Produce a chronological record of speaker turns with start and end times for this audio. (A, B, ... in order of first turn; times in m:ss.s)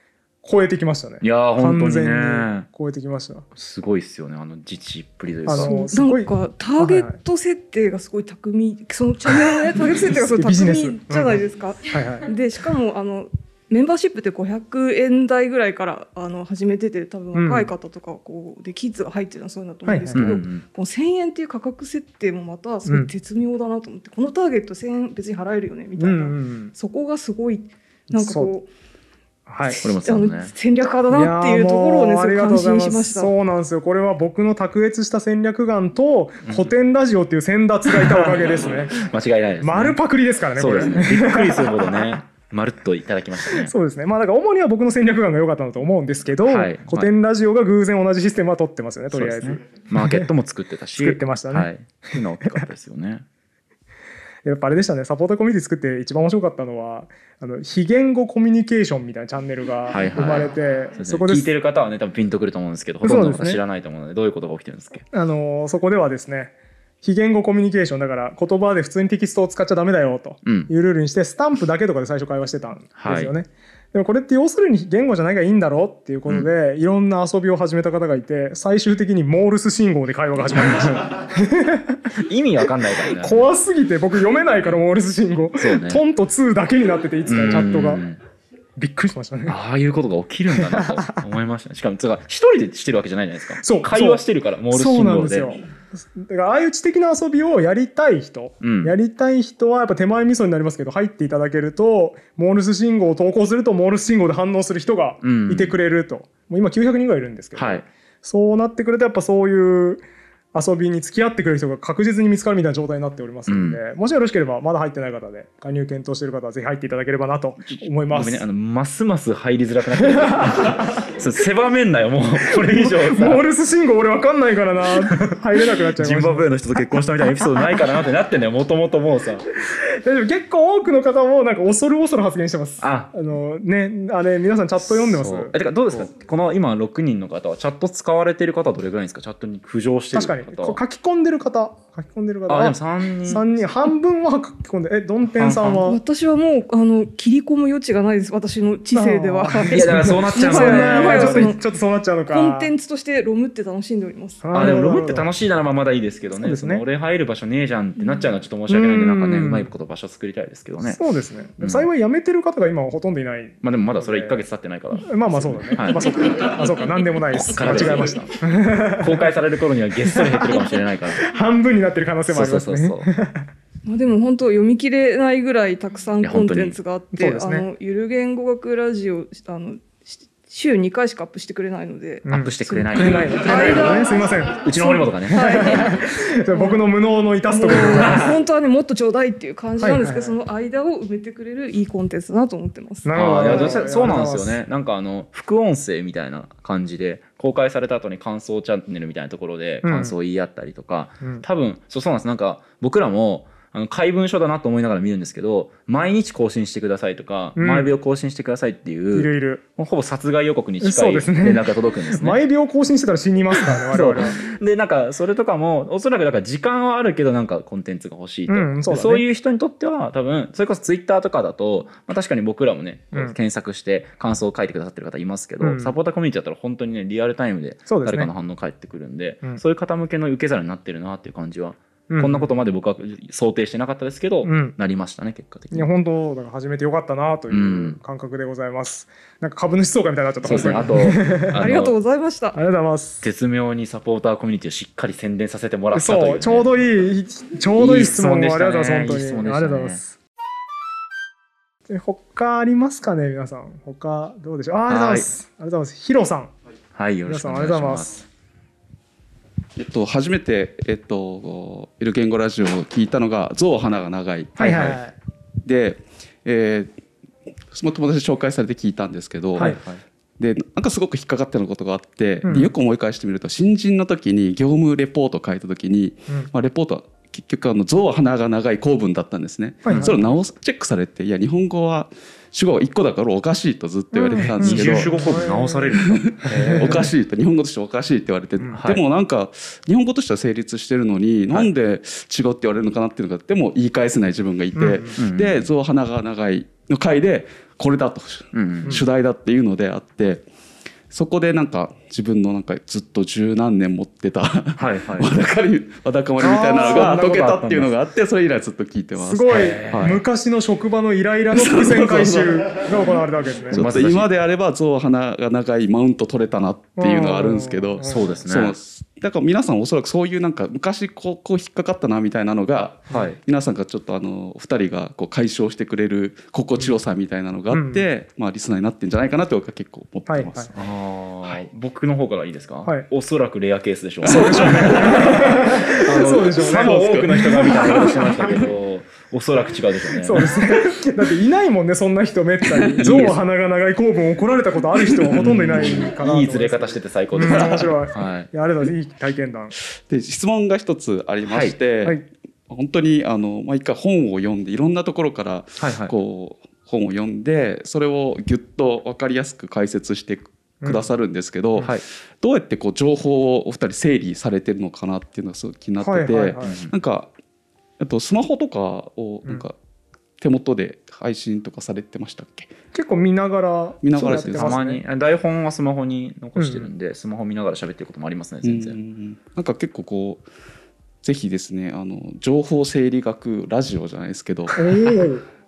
0:00.4-0:03.4 A
0:01.2-0:02.7 B
0:03.5-0:05.7 B
0:05.4-0:07.2 A
0:05.5-0:28.7 C
0:10.2-0:12.3 A
0:17.3-0:17.7 A
0:19.8-0:20.3 A
0:20.1-0:20.6 B
0:22.8-0:23.1 A
0:26.0-0:26.7 A
0:28.1-0:28.5 A
0:29.5-0:29.8 A
0:29.7-0:33.3 C
0:29.8-0:30.5 B
0:31.1-0:39.0 A
0:38.0-0:40.0 B
0:39.6-0:42.0 A
0:40.6-0:43.7 B
0:43.6-0:50.3 A
0:46.4-0:47.1 B
0:49.1-0:53.2 B
0:51.0-0:51.7 A
0:54.4-1:01.5 A
0:59.9-1:05.0 B
1:03.0-1:03.6 A
1:05.1-1:22.0 A
1:10.4-1:10.7 B
1:13.0-1:13.3 B
1:20.5-1:21.0 B
1:22.2-1:23.5 B
1:23.2-1:28.0 A
1:25.6-1:26.0 B
1:27.3-1:28.2 B
1:28.8-1:29.6 A
1:29.5-1:35.6 B
1:30.6-1:31.2 A
1:33.6-1:50.0 A
1:38.6-1:38.9 B
1:45.2-1:45.8 B
1:47.5-1:47.8 B
1:50.5-1:58.4 A
1:53.5-1:53.8 B
1:57.6-2:03.4 B
2:00.2-2:00.8 A
2:02.7-2:06.5 A
2:06.0-2:09.4 B
2:10.0-2:16.1 A
2:12.8-2:13.1 B
2:14.8-2:20.8 B
2:20.1-2:26.0 A
2:22.5-2:23.4 B
2:25.3-2:25.8 B
2:25.8-2:31.6 C
2:28.9-2:32.7 A
2:29.7-2:31.5 B
2:32.3-2:34.8 C
2:34.4-2:35.3 A
2:34.5-2:41.0 B
2:36.4-2:36.8 A
2:38.0-2:38.2 C
2:38.7-2:39.7 A
2:40.8-2:44.4 A
2:41.6-2:41.9 B
2:43.6-2:46.6 B
2:45.1-2:49.3 A
2:47.3-2:51.2 B
2:50.0-2:50.7 A
2:51.2-2:53.4 A
2:52.3-2:53.1 B
2:53.8-3:04.5 C
2:56.2-2:56.8 B
2:57.1-2:57.7 A
3:02.2-3:08.3 A
3:02.3-3:03.9 B
3:04.6-3:05.9 B
3:05.3-3:06.9 C
3:07.5-3:13.9 C
3:07.9-3:08.3 B
3:09.8-3:10.4 A
3:13.0-3:14.6 A
3:13.1-3:32.4 B
3:19.8-3:20.1 A
3:27.6-3:27.9 A
3:29.1-3:29.6 A
3:30.8-3:31.6 A
3:32.1-3:34.4 A
3:33.7-3:55.9 B
3:38.5-3:39.2 A
3:45.6-3:45.9 A
3:47.9-3:48.3 A
3:52.1-3:52.5 A
3:54.4-3:54.7 A
3:55.7-4:01.6 A
3:57.5-3:58.0 B
4:00.4-4:01.9 B
4:01.5-4:02.6 C
4:02.5-4:03.2 A
4:03.2-4:06.7 B
4:05.9-4:10.1 A
4:07.8-4:10.0 B
4:11.9-4:16.5 A
4:14.9-4:15.3 B
4:16.9-4:18.2 B
4:17.2-4:18.2 A
4:19.8-4:24.9 D
4:24.6-4:25.1 A
4:24.7-4:25.0 B
4:25.6-4:26.9 D
4:27.7-4:29.8 D
4:29.6-4:30.0 B
4:30.4-4:45.2 D
4:32.4-4:32.7 A
4:39.8-4:40.2 A
4:39.9-4:40.2 B
4:44.1-4:45.8 A
4:44.4-4:47.1 B
4:46.1-5:00.4 D
4:48.8-4:49.0 B
4:54.8-4:55.2 A
4:55.2-4:55.6 B
4:58.5-4:59.0 B
5:01.1-5:10.0 D
5:04.8-5:05.3 B
5:06.4-5:07.6 A
5:06.8-5:07.9 B
5:09.2-5:13.8 A
5:09.5-5:10.2 B
5:11.5-5:13.1 D
5:13.7-5:30.8 D
5:13.7-5:14.3 B
5:17.0-5:18.3 A
5:18.0-5:18.8 B
5:23.1-5:23.4 B
5:27.7-5:28.0 A
5:30.3-5:30.7 A
5:30.7-5:40.5 B
5:34.2-5:35.5 D
5:34.3-5:38.6 A
5:36.2-5:37.6 D
5:40.2-5:49.7 A
5:42.8-5:43.2 D
5:43.0-5:43.4 B
5:45.4-5:48.5 B
5:47.4-5:47.9 D
5:49.9-6:07.3 D
5:51.4-5:51.8 B
5:55.8-5:56.1 B
6:00.8-6:01.1 A
6:06.0-6:06.8 A
6:06.6-6:06.9 B
6:08.0-6:09.7 D
6:10.4-6:12.7 D
6:12.9-6:15.0 A
6:14.0-6:14.8 D
6:14.2-6:19.0 B
6:16.6-6:16.9 A
6:18.6-6:20.4 D
6:21.2-6:25.1 D
6:24.8-6:25.4 A